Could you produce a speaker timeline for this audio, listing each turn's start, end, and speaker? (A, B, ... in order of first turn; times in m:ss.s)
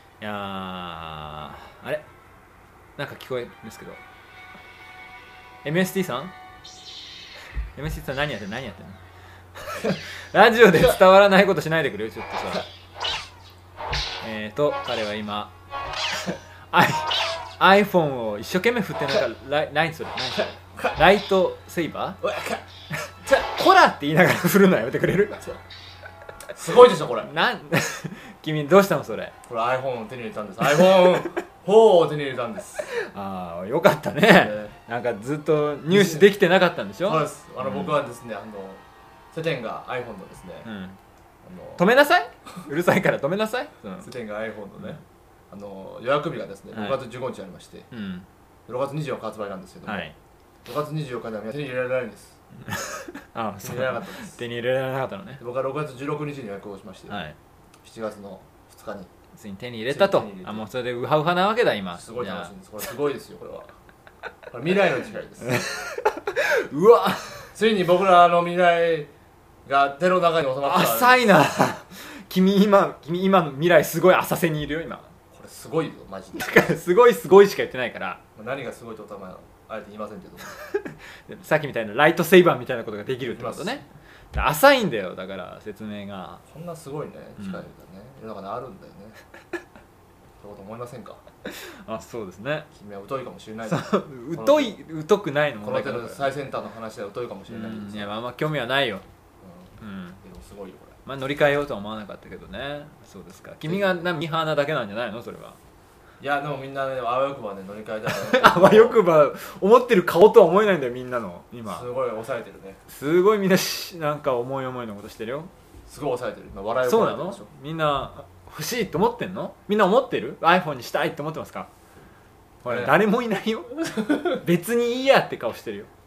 0:00.2-0:02.1 A
0:03.0-0:04.0 A
0:05.6-0:06.3 A
0:07.8-0:09.0 A
0:09.6-0:12.7 A
0:14.2-0:15.5 A
0:16.7-0:22.2 A
0:22.2-0:22.6 B
0:23.3-0:25.5 A
0:26.6-0:27.3 B
0:27.2-0:29.3 A
0:29.5-0:32.9 B
0:32.9-0:38.0 A
0:34.3-0:34.7 B
0:35.9-0:36.3 B
0:37.0-0:38.8 B
0:39.3-0:40.7 B
0:40.6-0:41.0 A
0:41.4-0:41.9 B
0:41.8-0:44.0 A
0:44.0-0:47.9 B
0:47.9-0:48.3 A
0:48.7-0:50.1 B
0:49.9-0:50.2 A
0:50.6-0:52.4 B
0:52.7-0:55.4 A
0:53.6-0:54.4 B
0:55.4-0:57.2 B
0:57.1-0:57.4 A
0:57.8-0:59.1 B
0:59.4-1:02.5 A
0:59.9-1:00.7 B
1:01.9-1:03.7 B
1:04.5-1:05.6 B
1:05.4-1:07.5 A
1:07.6-1:09.1 B
1:09.7-1:11.3 B
1:10.6-1:15.1 A
1:15.3-1:16.6 B
1:16.4-1:18.2 A
1:18.4-1:20.5 B
1:20.8-1:26.4 A
1:23.3-1:23.8 B
1:26.5-1:29.2 B
1:30.4-1:31.2 B
1:31.5-1:32.7 A
1:32.7-1:34.8 B
1:33.7-1:36.3 A
1:35.6-1:38.1 B
1:37.5-1:39.0 A
1:39.4-1:41.0 B
1:39.8-1:40.2 A
1:41.0-1:45.6 A
1:43.7-1:44.0 B
1:46.2-1:49.0 B
1:48.2-1:51.9 A
1:51.7-1:52.8 B
1:52.9-1:55.5 A
1:55.9-1:57.5 B
1:56.8-2:01.7 A
2:02.6-2:05.9 A
2:02.6-2:03.0 B
2:04.0-2:04.4 B